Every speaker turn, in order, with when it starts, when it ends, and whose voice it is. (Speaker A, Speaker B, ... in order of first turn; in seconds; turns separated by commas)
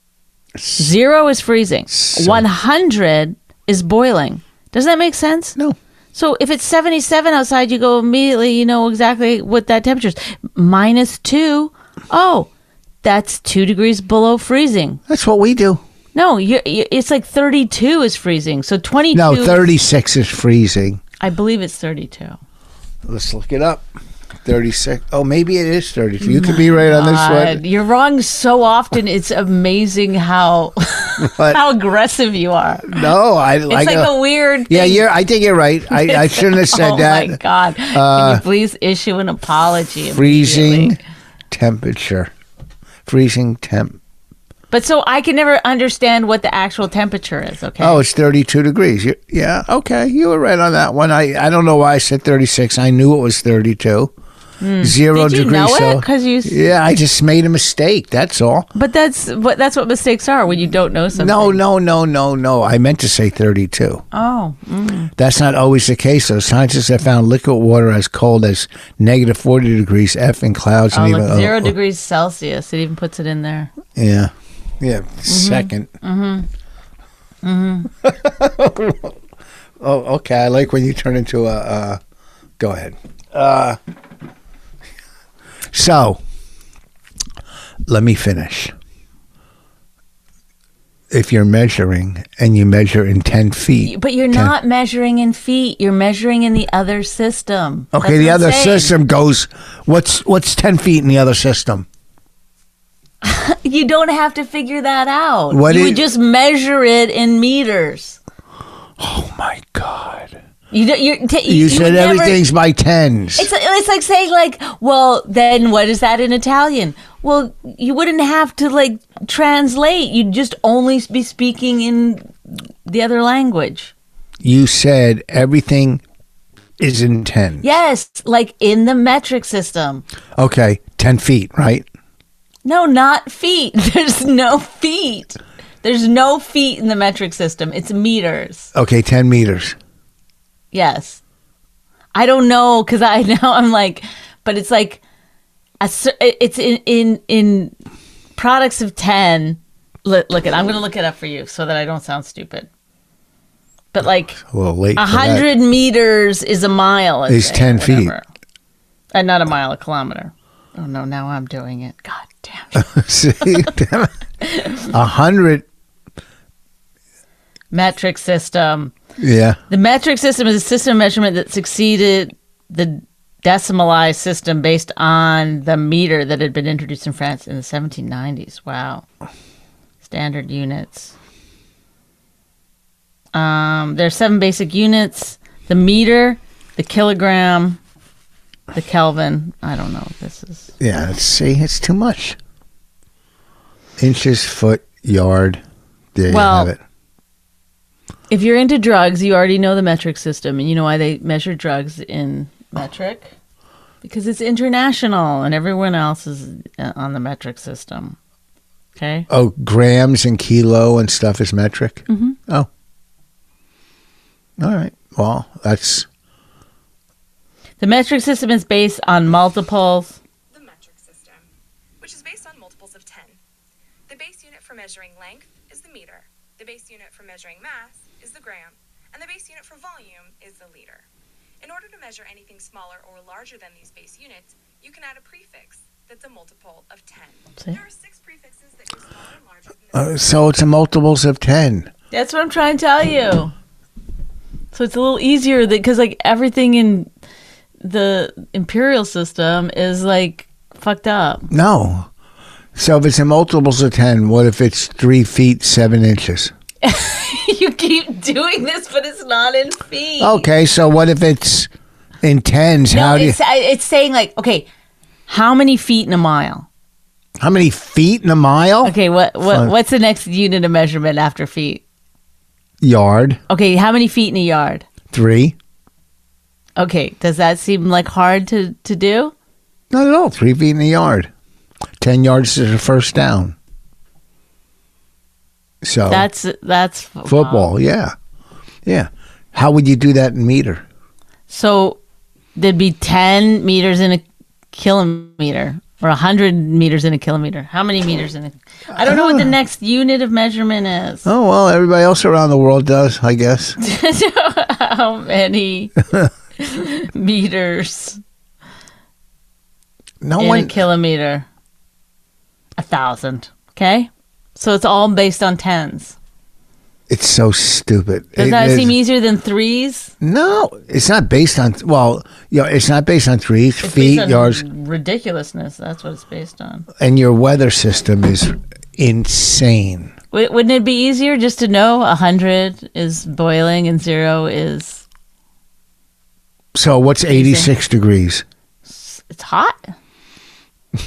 Speaker A: 0.6-0.9, Speaker B: 0.8-5.6, Speaker A: 1.9-2.4, Speaker B: 6.1-12.5, Speaker B: 13.0-15.0, Speaker A: 15.1-15.8, Speaker B: 16.1-19.6, Speaker A: 19.1-21.0, Speaker B: 21.2-22.4, Speaker A: 23.0-23.9, Speaker A: 24.4-27.6, Speaker B: 26.2-33.1, Speaker A: 31.2-31.6, Speaker A: 32.9-34.1, Speaker B: 33.7-35.0, Speaker A: 34.7-38.4, Speaker B: 35.9-41.0, Speaker A: 40.1-41.0, Speaker A: 41.5-42.3, Speaker A: 43.0-44.0, Speaker B: 44.7-48.0, Speaker A: 47.8-54.1, Speaker B: 54.6-56.6, Speaker A: 54.8-58.7, Speaker B: 58.7-61.6, Speaker A: 61.1-64.0, Speaker B: 64.1-65.1, Speaker A: 65.2-71.7, Speaker B: 70.9-73.7, Speaker A: 73.9-75.9, Speaker B: 75.3-76.5, Speaker B: 77.4-77.9, Speaker A: 78.0-79.2, Speaker A: 79.8-82.0, Speaker A: 82.6-83.8, Speaker A: 85.7-86.2, Speaker A: 87.9-88.7, Speaker A: 91.1-94.5, Speaker B: 93.8-98.9, Speaker A: 97.9-101.8, Speaker B: 103.2-108.2, Speaker A: 105.5-106.0, Speaker A: 109.0-110.4, Speaker B: 110.7-112.4, Speaker A: 111.5-113.5, Speaker B: 113.3-123.9, Speaker A: 124.4-126.0, Speaker A: 126.8-127.7, Speaker B: 127.6-130.0, Speaker A: 130.3-131.8, Speaker B: 132.6-138.7, Speaker A: 138.7-139.8, Speaker B: 140.7-141.2, Speaker B: 142.1-145.0, Speaker B: 145.8-147.7, Speaker B: 148.3-152.7, Speaker B: 153.9-154.4, Speaker A: 154.4-155.4, Speaker B: 154.9-158.2, Speaker A: 157.3-158.1, Speaker B: 159.1-162.9, Speaker A: 162.7-164.2, Speaker B: 163.4-163.7, Speaker B: 164.4-164.8, Speaker A: 164.9-165.7, Speaker B: 167.7-168.9, Speaker A: 169.2-169.6, Speaker B: 169.7-179.1, Speaker B: 180.0-181.1, Speaker B: 183.3-187.8, Speaker B: 188.7-190.7, Speaker A: 190.8-192.4, Speaker A: 194.0-195.6, Speaker A: 196.1-196.8, Speaker B: 196.3-196.7, Speaker B: 198.3-203.3, Speaker B: 204.0-208.2, Speaker B: 208.9-209.3, Speaker A: 209.3-212.7, Speaker B: 212.1-212.4, Speaker A: 214.6-216.1, Speaker B: 217.8-220.2, Speaker C: 220.5-221.4, Speaker C: 222.0-223.4, Speaker C: 224.1-231.0, Speaker C: 231.6-240.2, Speaker A: 239.9-241.9, Speaker B: 242.1-243.5, Speaker B: 244.7-247.1, Speaker B: 247.8-251.5, Speaker A: 251.5-252.1, Speaker A: 252.7-256.5, Speaker B: 256.8-260.5, Speaker A: 260.2-261.7, Speaker A: 262.2-263.4, Speaker B: 262.9-264.6, Speaker B: 265.3-266.7, Speaker A: 267.4-268.9, Speaker B: 268.8-271.8, Speaker A: 269.4-269.7, Speaker A: 272.8-273.4, Speaker B: 273.5-274.9, Speaker A: 275.1-275.6, Speaker B: 276.8-279.3, Speaker A: 279.9-281.3, Speaker A: 282.0-283.5, Speaker A: 285.8-286.3, Speaker B: 286.1-287.7, Speaker A: 287.3-288.1, Speaker A: 288.9-290.8, Speaker B: 291.5-292.0, Speaker B: 292.6-301.3, Speaker A: 298.9-299.5, Speaker A: 301.2-303.8, Speaker B: 303.8-306.0, Speaker B: 306.6-308.2, Speaker A: 310.2-310.8, Speaker B: 310.4-311.4, Speaker B: 312.8-316.1, Speaker A: 317.1-318.9, Speaker B: 318.4-320.1, Speaker A: 320.2-324.6, Speaker B: 323.8-326.9, Speaker A: 327.0-330.1, Speaker B: 330.3-335.0, Speaker A: 336.7-338.4, Speaker B: 337.3-337.7, Speaker B: 338.9-339.9